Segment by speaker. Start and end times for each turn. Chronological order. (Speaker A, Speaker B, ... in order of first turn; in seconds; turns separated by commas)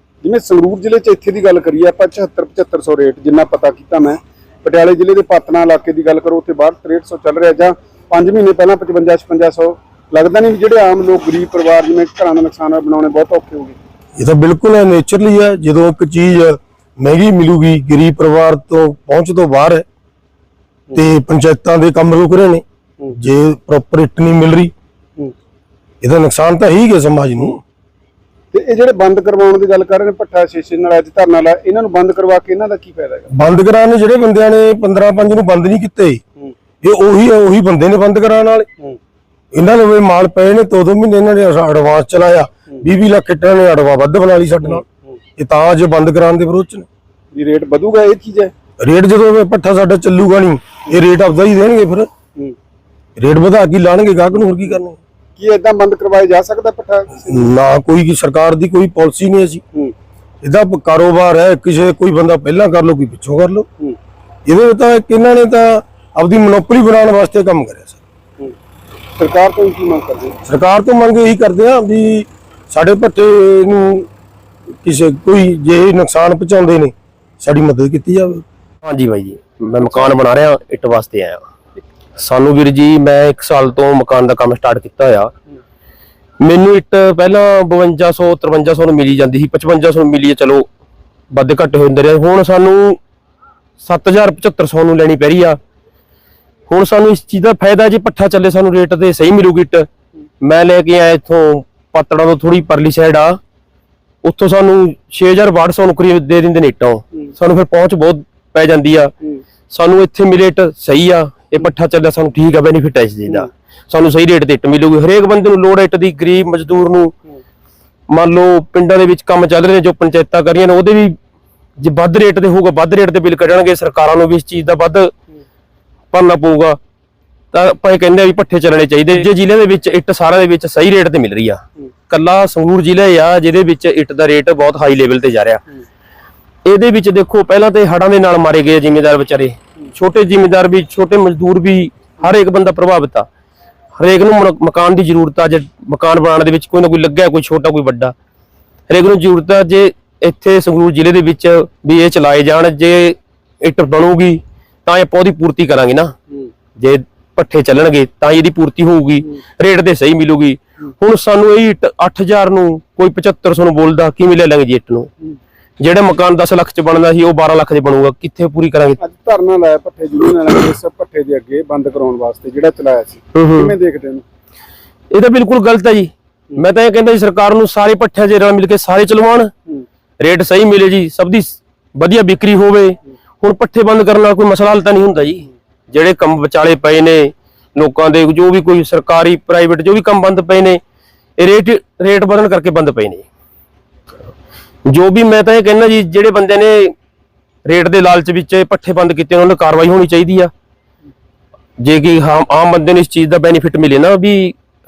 Speaker A: 0.2-13.8, Speaker B: 14.2-19.8, Speaker B: 20.9-22.6, Speaker B: 23.1-24.7, Speaker B: 26.0-27.6, Speaker A: 28.5-33.3, Speaker B: 33.3-36.2, Speaker B: 36.8-38.7, Speaker B: 39.5-44.8, Speaker A: 44.7-45.2, Speaker B: 45.4-46.8, Speaker A: 47.3-48.5, Speaker B: 48.8-52.1, Speaker B: 53.2-55.0, Speaker A: 55.4-57.5, Speaker B: 57.3-59.6, Speaker B: 60.4-63.7, Speaker B: 64.5-68.0, Speaker A: 69.2-70.4, Speaker B: 70.4-74.1, Speaker B: 74.8-78.4, Speaker C: 78.8-81.4, Speaker C: 82.2-85.3, Speaker C: 86.4-90.7, Speaker C: 91.3-93.0, Speaker C: 93.8-95.6, Speaker C: 96.7-99.9, Speaker C: 100.4-103.4, Speaker C: 104.2-109.1, Speaker C: 109.7-117.1, Speaker C: 118.1-121.2, Speaker C: 121.8-125.1, Speaker C: 126.1-126.8, Speaker C: 127.5-135.6, Speaker C: 136.6-143.3, Speaker C: 144.0-148.1, Speaker C: 148.9-156.1, Speaker C: 156.8-165.1, Speaker C: 165.8-169.0, Speaker A: 169.0-174.2, Speaker C: 173.3-173.7, Speaker C: 175.1-179.5, Speaker C: 180.2-190.8, Speaker C: 191.4-193.2, Speaker C: 194.8-196.9, Speaker C: 197.6-200.5, Speaker C: 201.8-204.5